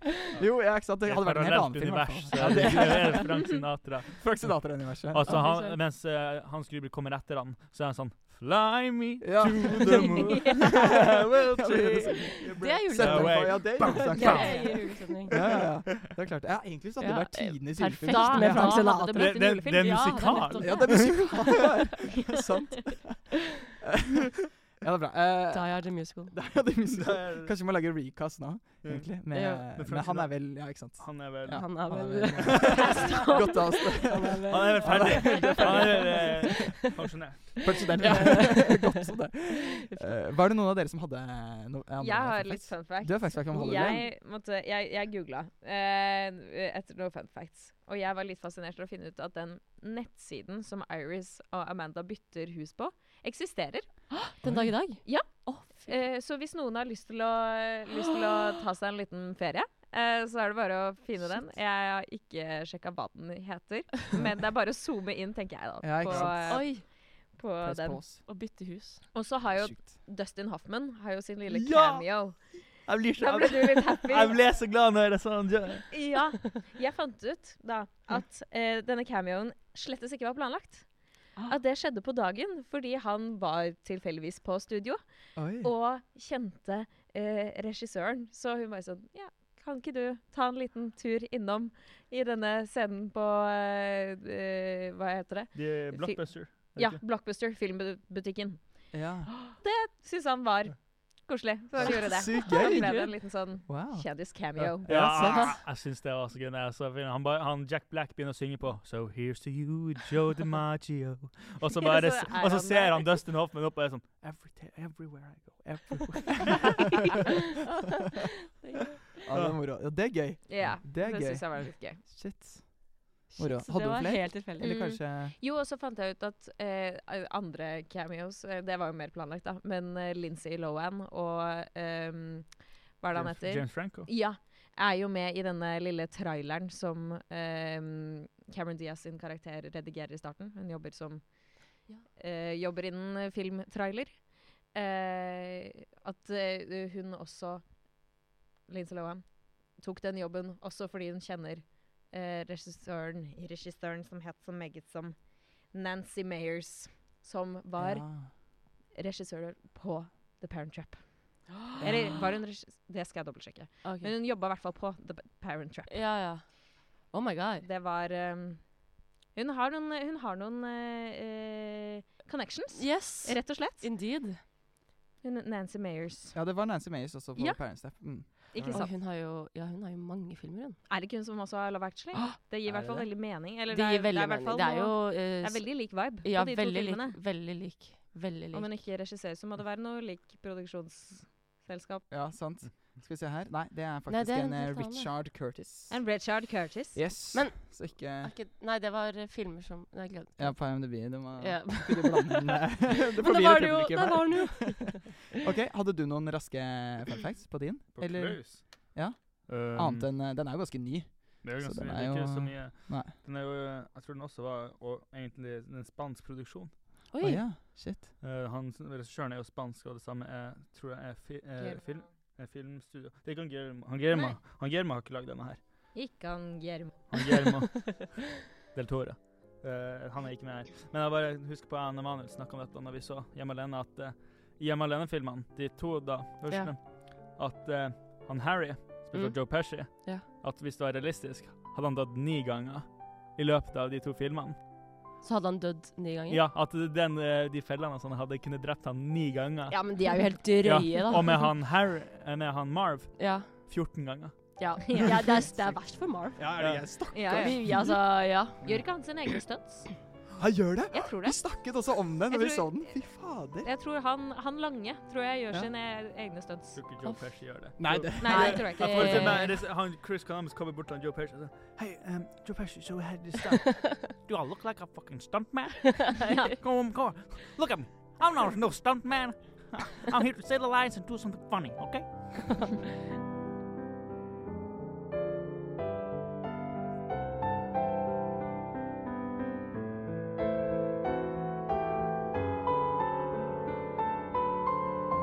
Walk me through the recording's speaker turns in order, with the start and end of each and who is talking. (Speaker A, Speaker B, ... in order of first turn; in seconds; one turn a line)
Speaker A: 0.2-3.6
Speaker B: 0.3-16.1
Speaker C: 2.4-2.8
Speaker A: 4.1-5.5
Speaker C: 5.2-5.8
Speaker A: 9.2-19.0
Speaker C: 12.6-15.4
Speaker D: 14.2-14.9
Speaker C: 17.0-21.7
Speaker D: 18.1-20.8
Speaker B: 18.4-21.4
Speaker A: 20.6-36.8
Speaker C: 25.5-26.3
Speaker B: 26.9-27.5
Speaker B: 28.8-33.1
Speaker C: 29.3-29.6
Speaker C: 31.5-36.5
Speaker B: 34.5-38.4
Speaker A: 37.6-44.1
Speaker C: 38.0-39.0
Speaker C: 39.8-40.2
Speaker D: 42.0-54.1
Speaker C: 54.2-56.0
Speaker A: 54.4-54.7
Speaker D: 55.0-68.3
Speaker A: 65.8-66.9
Speaker B: 66.0-66.3
Speaker C: 66.5-66.8
Speaker A: 67.6-68.2
Speaker C: 68.2-69.1
Speaker D: 69.1-74.4
Speaker A: 69.5-69.8
Speaker B: 71.5-76.0
Speaker D: 75.9-105.5
Speaker A: 85.3-85.7
Speaker B: 95.5-97.0
Speaker A: 98.9-99.5
Speaker A: 101.8-105.6
Speaker C: 102.5-103.1
Speaker B: 104.6-117.0
Speaker D: 111.8-113.1
Speaker A: 116.3-116.7
Speaker C: 118.6-119.0
Speaker A: 119.2-125.3
Speaker D: 120.5-122.0
Speaker C: 123.3-124.8
Speaker D: 124.6-166.1
Speaker B: 133.1-134.1
Speaker A: 157.8-158.3
Speaker A: 161.8-162.1
Speaker C: 163.8-164.1
Speaker C: 165.9-167.7
Speaker D: 167.6-173.9
Speaker C: 172.7-174.4
Speaker D: 175.2-176.3
Speaker A: 176.3-178.5
Speaker D: 177.3-178.9
Speaker C: 178.7-180.8
Speaker D: 180.9-187.2
Speaker A: 182.6-183.1
Speaker C: 183.7-188.8
Speaker D: 188.5-192.1
Speaker A: 192.1-196.2
Speaker C: 194.1-195.1
Speaker D: 195.9-197.0
Speaker A: 196.9-198.3
Speaker C: 197.3-205.2
Speaker A: 200.4-213.1
Speaker B: 207.9-210.1
Speaker B: 211.4-216.8
Speaker C: 217.1-217.4
Speaker A: 217.2-218.1
Speaker B: 218.2-225.6
Speaker D: 221.6-222.1
Speaker D: 225.9-227.2
Speaker B: 227.1-244.6
Speaker C: 236.5-236.7
Speaker C: 239.1-240.2
Speaker C: 245.2-246.4
Speaker B: 246.3-254.6
Speaker C: 249.7-251.4
Speaker C: 253.2-253.7
Speaker C: 254.6-258.6
Speaker D: 254.9-255.4
Speaker A: 255.5-255.8
Speaker A: 256.3-258.0
Speaker B: 256.6-256.9
Speaker D: 257.1-258.0
Speaker A: 258.6-258.9
Speaker D: 258.6-260.1
Speaker A: 260.4-263.7
Speaker D: 260.9-266.8
Speaker B: 266.7-282.7
Speaker C: 267.0-267.3
Speaker A: 267.8-268.9
Speaker D: 268.2-269.6
Speaker C: 268.2-269.5
Speaker C: 276.2-276.5
Speaker D: 276.2-276.6